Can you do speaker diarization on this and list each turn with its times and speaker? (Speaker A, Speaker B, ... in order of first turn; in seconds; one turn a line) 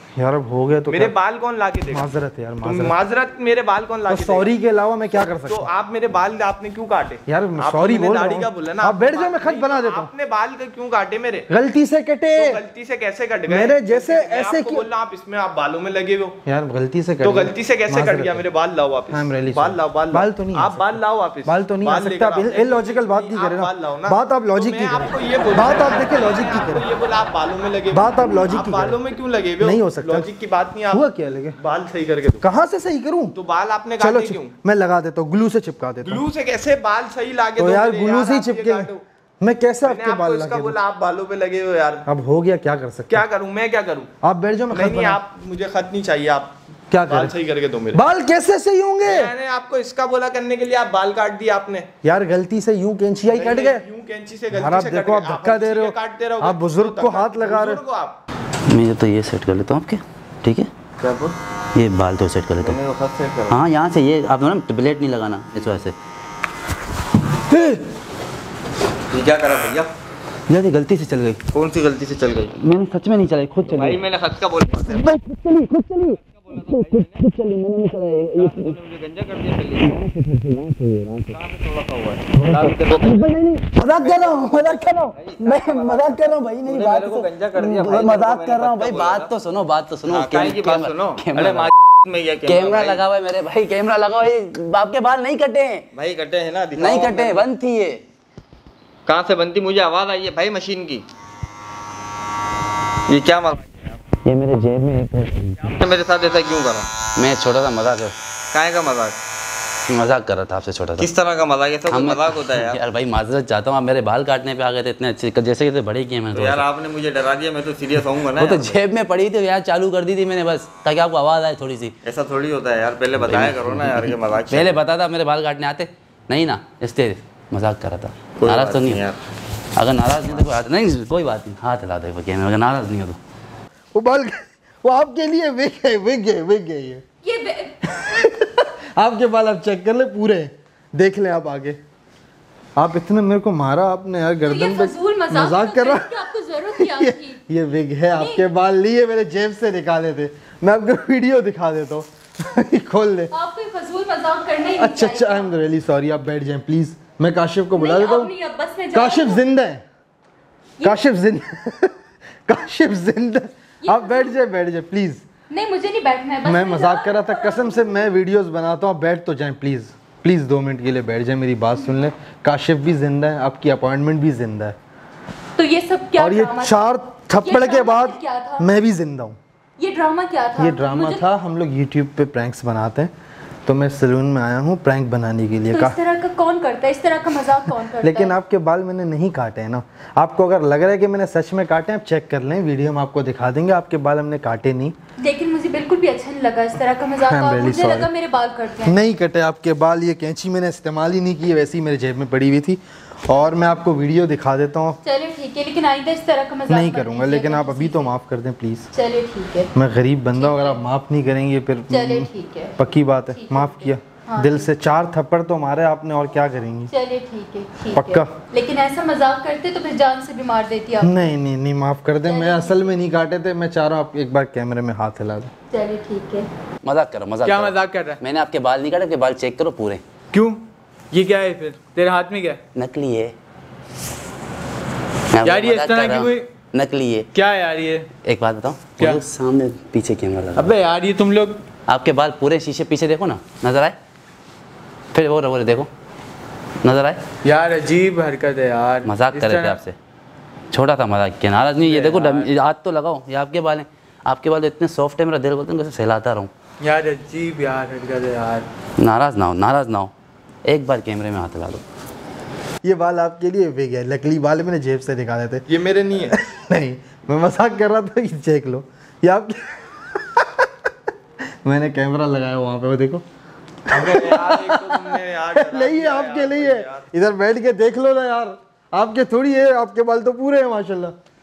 Speaker A: 0.2-1.1
Speaker B: 0.9-2.0
Speaker A: 1.9-2.9
Speaker B: 2.6-4.5
Speaker A: 4.1-5.7
Speaker B: 5.5-11.5
Speaker A: 7.3-10.1
Speaker A: 11.5-12.6
Speaker B: 12.3-16.4
Speaker A: 13.5-14.9
Speaker A: 16.4-18.4
Speaker B: 17.2-31.0
Speaker A: 19.1-26.9
Speaker A: 27.9-29.0
Speaker A: 29.6-30.3
Speaker A: 30.9-31.6
Speaker B: 31.6-32.4
Speaker A: 32.4-33.4
Speaker B: 33.3-34.5
Speaker A: 34.0-36.2
Speaker B: 36.0-39.0
Speaker A: 37.6-38.9
Speaker A: 39.4-40.8
Speaker B: 39.8-42.0
Speaker A: 42.0-43.2
Speaker B: 43.1-44.1
Speaker A: 44.2-45.2
Speaker B: 44.7-46.5
Speaker A: 46.9-47.3
Speaker B: 47.1-48.0
Speaker A: 47.9-49.3
Speaker B: 49.0-51.9
Speaker A: 52.0-53.8
Speaker B: 53.3-58.2
Speaker A: 54.5-57.8
Speaker C: 58.7-60.7
Speaker D: 61.0-61.4
Speaker C: 61.7-62.8
Speaker D: 62.6-63.6
Speaker C: 63.5-65.9
Speaker D: 69.1-69.9
Speaker C: 70.5-71.4
Speaker D: 71.5-72.5
Speaker C: 72.6-74.0
Speaker D: 73.6-75.1
Speaker C: 74.9-78.8
Speaker D: 76.4-77.3
Speaker D: 78.3-80.0
Speaker C: 79.8-81.4
Speaker D: 81.3-83.2
Speaker C: 82.3-91.7
Speaker D: 84.0-89.3
Speaker D: 90.1-93.0
Speaker C: 92.4-95.9
Speaker D: 95.9-97.4
Speaker C: 96.8-98.0
Speaker D: 99.0-101.0
Speaker D: 103.1-103.8
Speaker C: 104.2-105.7
Speaker D: 105.7-106.9
Speaker C: 107.2-108.1
Speaker D: 108.5-109.2
Speaker C: 109.9-111.1
Speaker D: 111.0-112.8
Speaker C: 111.9-116.7
Speaker D: 116.3-118.8
Speaker C: 118.3-121.9
Speaker D: 122.0-124.8
Speaker C: 123.1-129.1
Speaker D: 128.4-129.2
Speaker C: 129.8-133.2
Speaker A: 133.9-137.0
Speaker E: 137.2-137.8
Speaker A: 137.9-141.8
Speaker A: 142.8-153.3
Speaker E: 144.4-147.4
Speaker E: 148.1-148.4
Speaker E: 153.3-155.5
Speaker A: 154.8-158.3
Speaker E: 157.7-159.4
Speaker A: 158.9-159.8
Speaker A: 160.8-165.2
Speaker E: 163.8-164.3
Speaker E: 165.5-168.1
Speaker A: 166.4-174.8
Speaker E: 175.6-178.7
Speaker A: 176.2-179.4
Speaker E: 179.8-181.2
Speaker A: 180.6-183.1
Speaker A: 183.7-186.0
Speaker E: 185.7-188.3
Speaker A: 188.0-194.9
Speaker E: 195.2-199.0
Speaker A: 197.3-198.1
Speaker A: 198.8-205.0
Speaker E: 205.0-208.1
Speaker A: 206.7-208.9
Speaker E: 208.9-209.7
Speaker A: 209.7-216.9
Speaker E: 210.3-210.8
Speaker E: 211.9-214.7
Speaker E: 216.9-221.3
Speaker A: 217.9-218.3
Speaker A: 221.0-225.5
Speaker E: 222.3-223.0
Speaker E: 225.7-226.5
Speaker C: 226.8-230.0
Speaker F: 227.4-228.2
Speaker F: 230.3-232.6
Speaker C: 232.7-233.3
Speaker C: 235.3-237.3
Speaker F: 235.4-236.5
Speaker F: 237.3-238.1
Speaker C: 238.2-240.7
Speaker F: 239.0-239.2
Speaker F: 240.5-241.6
Speaker C: 241.9-243.9
Speaker C: 245.1-245.9
Speaker C: 246.8-247.2
Speaker F: 247.4-249.8
Speaker C: 249.0-249.9
Speaker C: 250.7-256.5
Speaker F: 251.8-252.5
Speaker F: 256.8-258.6
Speaker C: 259.0-260.1
Speaker C: 260.6-261.8
Speaker A: 262.8-265.7
Speaker B: 265.7-266.3
Speaker A: 266.3-270.7
Speaker A: 271.6-273.2
Speaker A: 273.9-281.1
Speaker B: 273.9-276.8
Speaker D: 276.4-277.0